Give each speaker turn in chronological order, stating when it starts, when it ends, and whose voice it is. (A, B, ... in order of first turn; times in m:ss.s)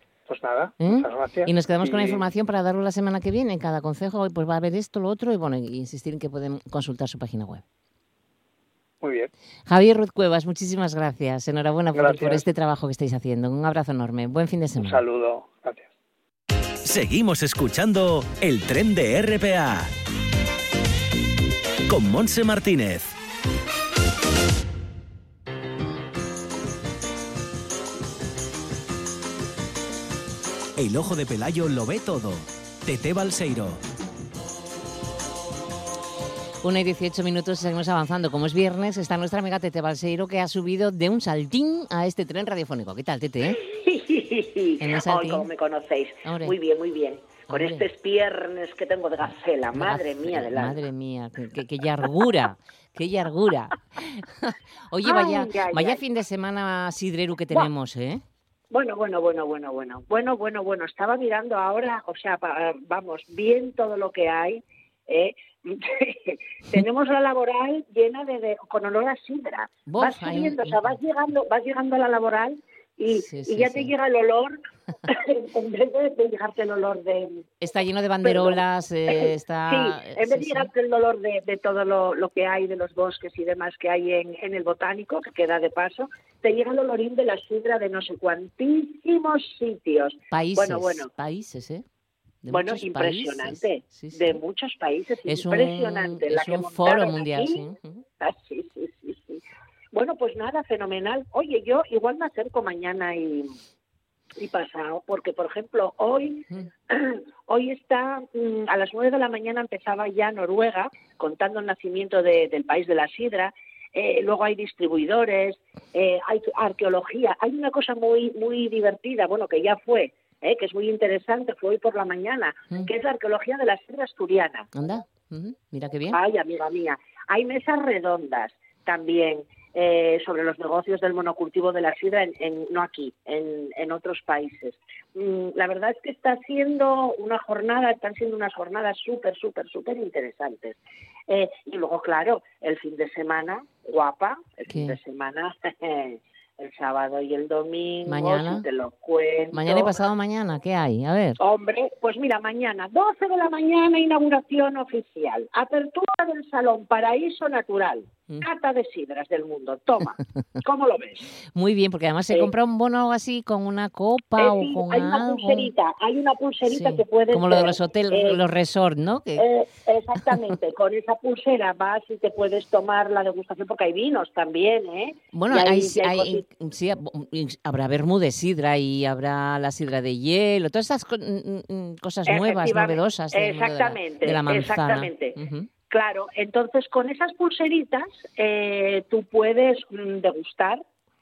0:00.3-0:02.2 A
0:00.8-0:07.6 B
0:09.0-0:09.3 A
0:09.7-0:15.0 B
0:11.9-0:12.4 A
0:14.8-0:15.9 A
0:16.8-0:19.9 C
0:21.9-0:23.2 C
0:30.8-0:33.8 C
0:36.6-0:43.6 B
0:43.4-0:50.8 D
0:44.8-0:45.5 B
0:46.2-0:46.6 B
0:47.5-0:47.8 B
0:49.7-0:58.2 B
0:55.0-0:56.0 D
0:58.7-1:17.4 D
1:09.8-1:10.8 B
1:13.1-1:13.9 B
1:17.6-1:20.7 B
1:18.2-1:31.1 D
1:30.3-1:31.8 B
1:32.4-1:34.4 B
1:32.5-1:37.6 D
1:35.3-1:38.0 B
1:38.2-1:39.4 D
1:39.9-1:43.5 D
1:44.4-2:04.7 D
2:04.7-2:06.2 B
2:06.1-2:20.8 D
2:21.3-2:30.0 D
2:24.7-2:25.0 B
2:28.0-2:28.6 B
2:29.5-2:31.4 B
2:31.4-2:41.2 D
2:41.4-2:45.7 B
2:44.4-2:48.4 D
2:46.6-2:49.4 B
2:49.4-2:56.4 D
2:55.3-3:05.7 B
3:02.2-3:05.4 D
3:05.9-3:10.8 D